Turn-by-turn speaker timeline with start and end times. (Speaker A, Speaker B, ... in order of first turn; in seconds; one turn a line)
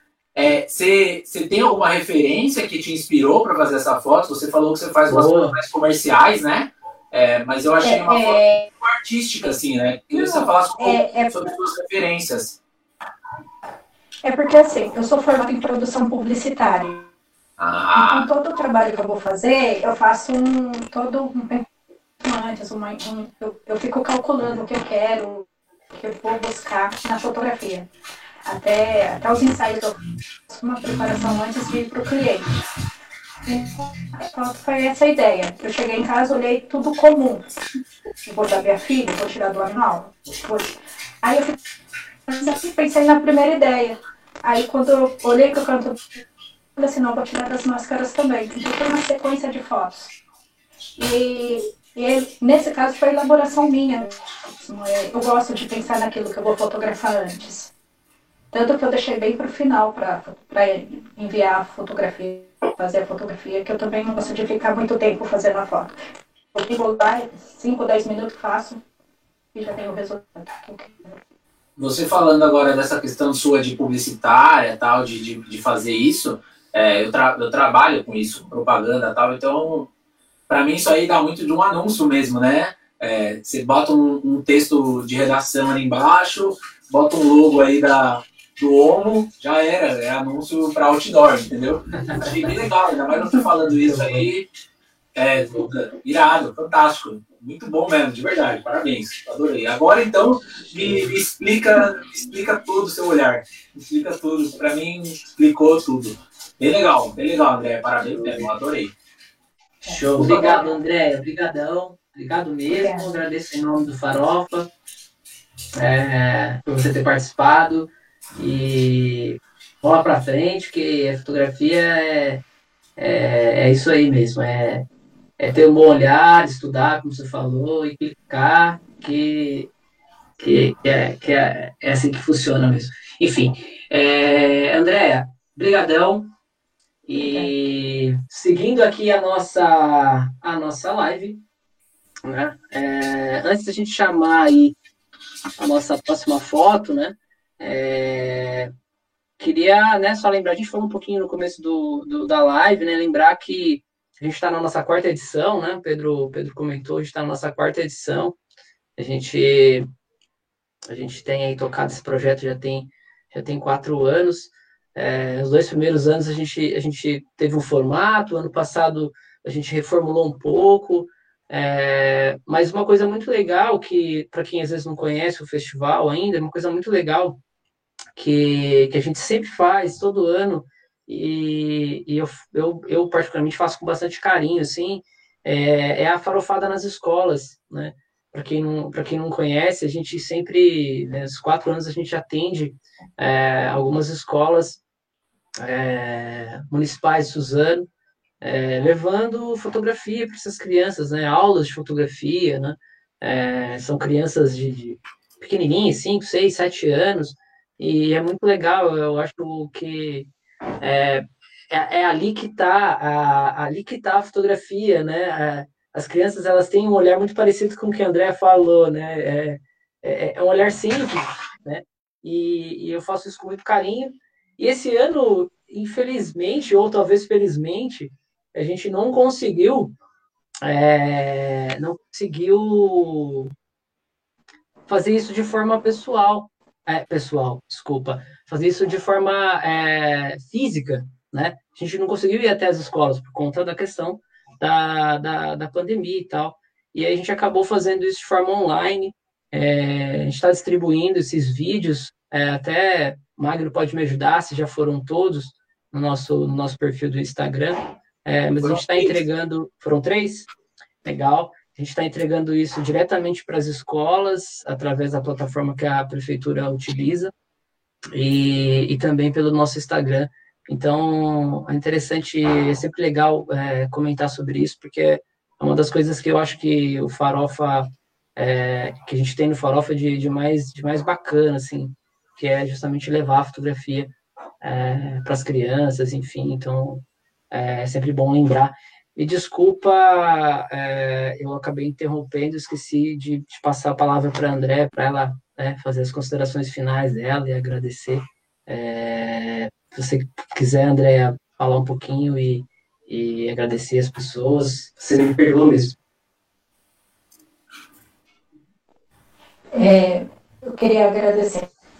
Speaker A: 0.4-12.6
Speaker B: 5.1-5.5
Speaker C: 7.8-8.7
Speaker C: 10.1-11.4
Speaker C: 14.2-17.1
Speaker A: 17.6-18.3
Speaker C: 18.0-21.6
Speaker C: 22.2-27.9
Speaker C: 28.4-32.6
Speaker C: 33.5-37.5
Speaker C: 38.2-40.7
Speaker C: 41.2-41.6
Speaker C: 42.3-46.0
Speaker C: 46.8-50.1
Speaker C: 51.0-57.7
Speaker C: 58.5-65.9
Speaker C: 66.5-68.8
Speaker C: 69.5-71.1
Speaker A: 71.8-79.9
Speaker A: 80.5-94.5
Speaker B: 92.0-92.4
Speaker B: 93.7-94.3
Speaker A: 95.2-108.9
Speaker B: 109.9-114.7
Speaker A: 110.0-110.6
Speaker C: 112.7-113.2
Speaker B: 115.8-122.4
Speaker B: 123.0-124.9
Speaker B: 125.4-129.7
Speaker B: 130.4-136.3
Speaker B: 137.1-141.4
Speaker C: 137.1-137.5
Speaker B: 142.3-144.8
Speaker B: 145.6-148.7
Speaker B: 149.4-158.4
Speaker B: 159.0-159.9
Speaker B: 160.9-177.4
Speaker B: 178.2-194.8
Speaker B: 195.6-197.9
Speaker B: 198.4-210.3
Speaker B: 210.8-229.9
Speaker B: 230.6-233.5
Speaker B: 234.9-260.5
Speaker A: 258.6-259.2
Speaker B: 261.0-267.3
Speaker B: 268.1-306.0
Speaker C: 309.7-311.7